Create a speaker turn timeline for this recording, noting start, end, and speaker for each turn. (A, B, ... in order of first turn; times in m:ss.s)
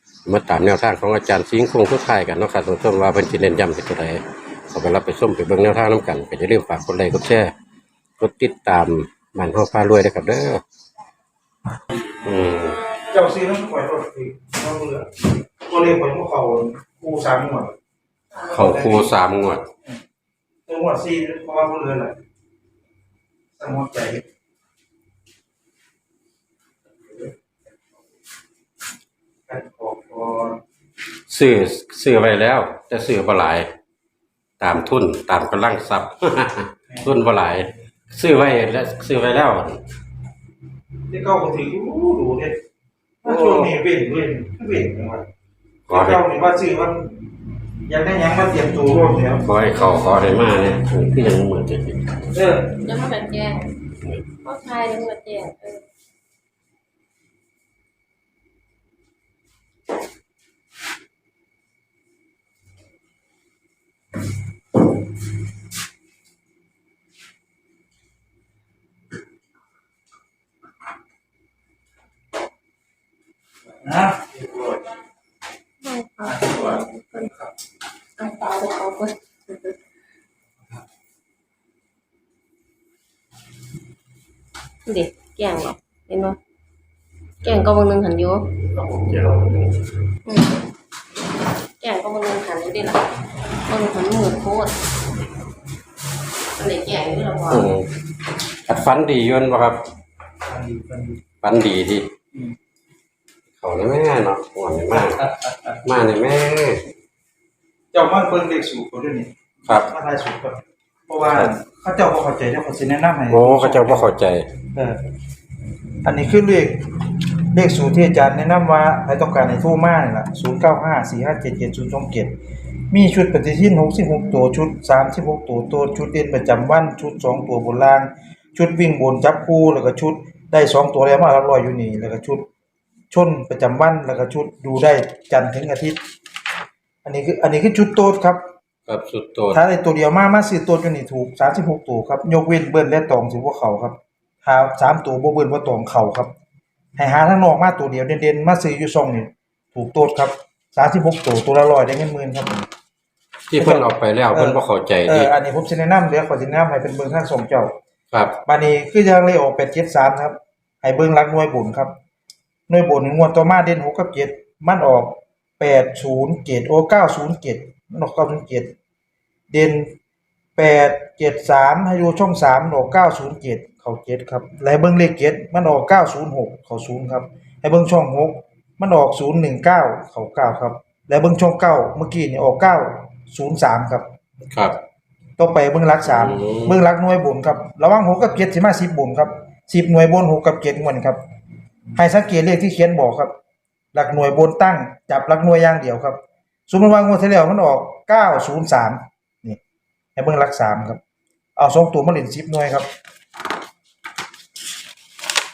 0:00.2-0:07.5 A
0:08.2-0:10.6 A
0:12.2-0:12.8 A
0:13.1-0:15.1 B
0:15.6-0:17.7 B
0:18.4-0:19.2 B
0:18.5-0:19.6 A
0:20.7-0:22.2 B
0:23.6-0:24.2 B
0:29.5-0:30.6 B
0:31.3-0:33.7 A
0:34.6-0:39.8 A
0:41.1-0:42.6 B
0:43.2-0:43.7 A
0:43.2-0:45.2 B
0:45.9-0:46.2 A
0:45.9-0:47.2 B
0:47.8-0:49.4 B
0:49.4-0:52.2 A
0:52.3-0:52.7 B
0:52.8-0:53.7 C
0:54.4-0:55.8 C
1:13.8-1:14.8 B
1:15.8-1:17.3 C
1:16.4-1:16.7 B
1:18.2-1:19.7 C
1:24.8-1:26.4 C
1:27.4-1:28.6 C
1:28.8-1:29.8 A
1:30.2-1:30.5 C
1:31.8-1:33.1 C
1:33.6-1:34.7 C
1:36.6-1:37.7 C
1:37.5-1:37.9 A
1:38.7-1:39.8 A
1:40.4-1:41.2 B
1:41.4-1:42.1 A
1:43.6-1:45.2 A
1:44.9-1:45.8 B
1:45.8-1:46.8 A
1:47.9-1:54.1 B
1:51.2-1:51.5 A
1:53.3-1:54.5 A
1:54.7-1:55.0 B
1:56.0-1:56.8 B
1:57.5-2:02.4 B
2:02.9-2:12.4 B
2:13.1-2:16.0 B
2:17.0-2:18.4 B
2:18.9-2:19.6 A
2:19.5-2:26.3 B
2:27.0-2:32.7 B
2:33.5-2:35.3 A
2:33.6-2:37.7 B
2:38.1-2:38.4 A
2:38.4-2:41.9 B
2:42.7-2:48.7 B
2:49.5-2:49.9 B
2:50.6-3:04.1 B
3:04.5-3:04.8 A
3:05.4-3:11.2 B
3:06.0-3:06.7 A
3:11.9-3:13.3 B
3:13.9-3:19.6 B
3:20.2-3:21.0 B
3:21.6-3:22.9 B